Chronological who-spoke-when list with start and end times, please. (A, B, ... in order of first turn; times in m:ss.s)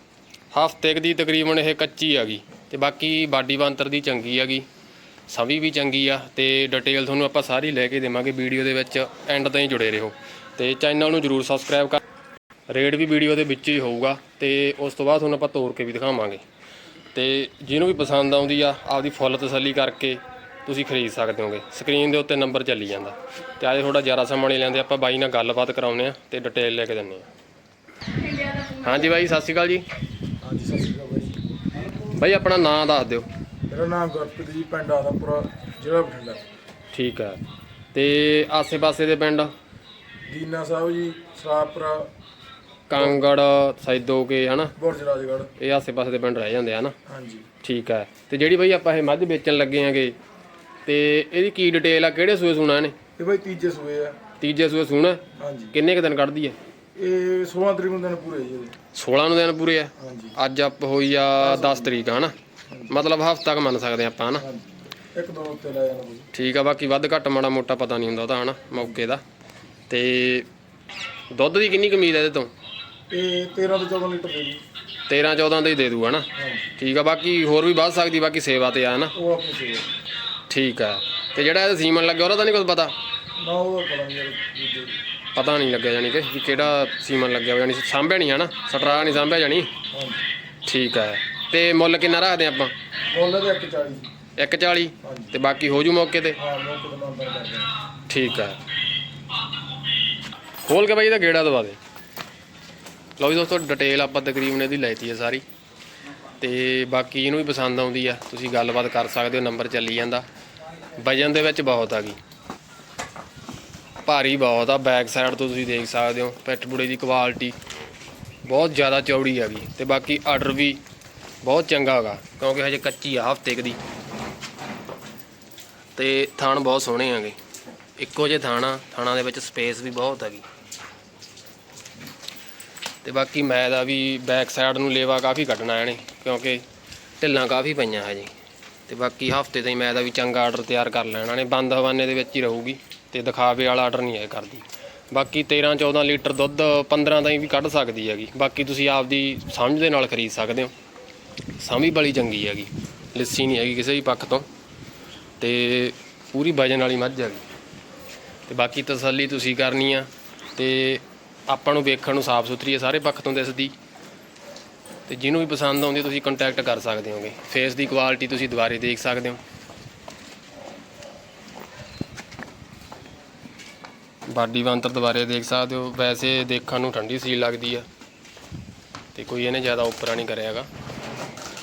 0:00.5-0:04.6 A
0:05.3-0:12.0 A
0:12.7-0:16.4 A
0:17.1-0:27.2 A
0:28.5-0:29.8 A
0:30.4-0:31.4 B
0:32.0-0:33.2 A
0:33.7-0:36.4 B
0:36.9-0:37.4 A
0:37.9-0:39.5 A
0:40.3-0:42.1 B
0:42.9-0:44.7 A
0:42.9-0:43.2 B
0:44.8-0:45.5 B
0:45.6-0:46.9 A
0:47.1-0:47.5 B
0:47.6-0:50.2 A
0:50.8-0:52.9 A
0:53.2-0:54.2 B
0:54.4-0:56.6 A
0:55.4-0:55.7 B
0:57.0-0:58.7 B
0:58.9-1:02.3 A
1:00.0-1:00.4 B
1:01.4-1:01.9 B
1:02.9-1:04.4 A
1:04.4-1:06.3 B
1:06.3-1:09.2 A
1:09.9-1:10.5 A
1:11.3-1:12.5 A
1:13.1-1:14.6 B
1:15.1-1:19.1 A
1:16.4-1:16.7 B
1:19.1-1:19.9 B
1:20.5-1:22.9 A
1:23.4-1:25.0 B
1:25.3-1:29.7 A
1:28.8-1:29.2 B
1:29.9-1:30.2 B
1:30.6-1:32.7 A
1:33.1-1:34.1 B
1:34.4-1:36.4 A
1:35.0-1:35.3 B
1:36.4-1:37.7 B
1:38.1-1:38.6 A
1:40.6-1:41.8 A
1:43.2-1:45.4 A
1:46.4-1:50.2 A
1:51.0-1:52.2 A
1:54.0-1:57.6 A
1:58.4-2:00.8 A
2:01.4-2:03.8 A
2:06.0-2:07.4 A
2:08.0-2:10.4 A
2:13.0-2:16.6 A
2:17.2-2:18.3 A
2:18.9-2:30.7 A
2:31.6-2:34.4 A
2:35.4-2:37.4 A
2:38.5-2:43.7 A
2:45.1-2:49.4 A
2:54.3-2:57.8 A
2:59.1-3:00.7 A